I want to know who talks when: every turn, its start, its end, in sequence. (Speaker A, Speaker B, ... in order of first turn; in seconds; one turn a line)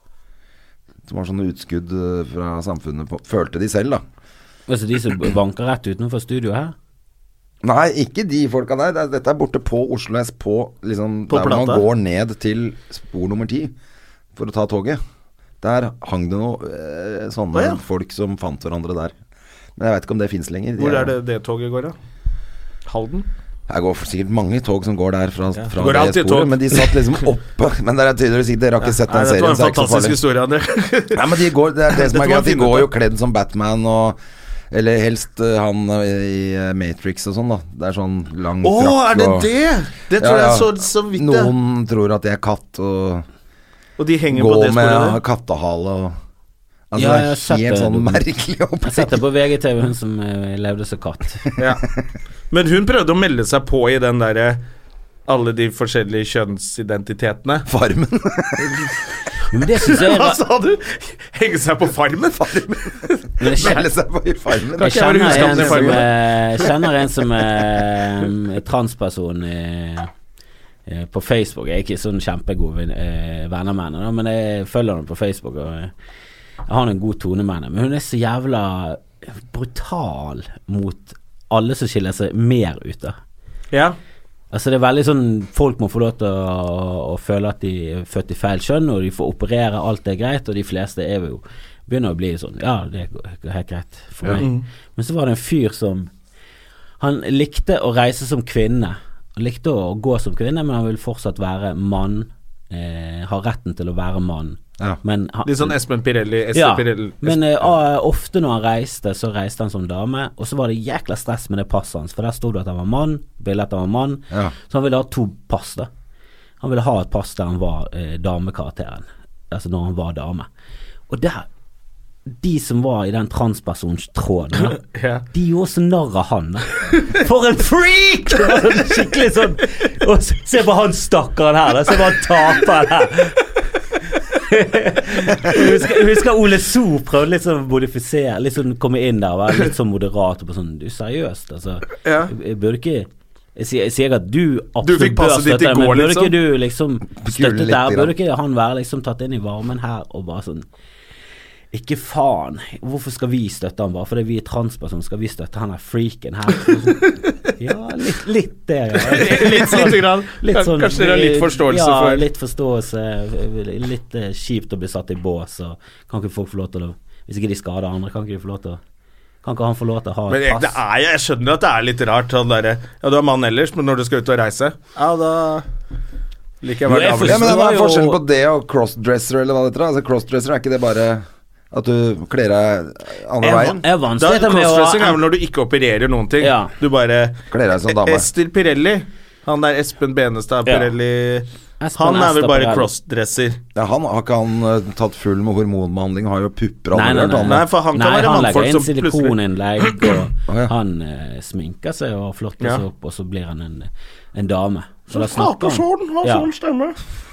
Speaker A: 1.1-4.0
Speaker B: 4.7-6.7
Speaker A: 7.6-13.7
Speaker C: 11.3-11.8
Speaker A: 14.3-15.0
Speaker A: 15.6-19.1
Speaker C: 17.5-17.8
Speaker A: 19.8-21.1
Speaker C: 20.8-21.9
Speaker C: 22.9-23.3
Speaker A: 23.7-30.2
Speaker C: 25.6-27.2
Speaker C: 28.8-31.3
Speaker A: 31.1-34.2
Speaker C: 31.9-32.9
Speaker A: 34.7-39.5
Speaker C: 38.6-41.5
Speaker A: 40.2-43.2
Speaker C: 44.0-45.2
Speaker A: 44.3-46.2
Speaker A: 46.9-49.2
Speaker B: 47.0-48.2
Speaker B: 48.8-51.5
Speaker C: 51.6-51.8
Speaker C: 52.5-54.6
Speaker C: 55.3-57.7
Speaker A: 57.7-58.9
Speaker B: 59.5-60.4
Speaker C: 59.8-63.7
Speaker A: 62.4-66.1
Speaker B: 63.4-63.8
Speaker C: 64.8-66.8
Speaker B: 64.8-70.1
Speaker B: 70.9-75.9
Speaker B: 76.7-83.2
Speaker C: 83.7-84.0
Speaker B: 84.5-96.1
Speaker C: 94.4-94.7
Speaker B: 97.0-105.8
Speaker C: 105.5-107.7
Speaker B: 106.5-115.9
Speaker B: 116.6-120.5
Speaker B: 121.1-121.5
Speaker B: 122.4-124.8
Speaker C: 124.8-125.2
Speaker B: 125.3-133.4
Speaker B: 134.3-150.7
Speaker C: 142.0-142.3
Speaker C: 144.8-146.4
Speaker A: 147.2-148.1
Speaker B: 151.7-168.8
Speaker C: 159.0-162.2
Speaker B: 169.4-170.8
Speaker C: 170.3-175.7
Speaker C: 176.6-177.6
Speaker B: 176.9-178.2
Speaker A: 177.2-183.8
Speaker B: 183.4-185.2
Speaker C: 184.2-193.6
Speaker B: 186.4-186.7
Speaker A: 187.5-188.3
Speaker B: 190.7-190.9
Speaker B: 191.8-192.9
Speaker A: 193.8-197.6
Speaker B: 196.9-206.5
Speaker C: 197.4-200.1
Speaker C: 205.1-207.0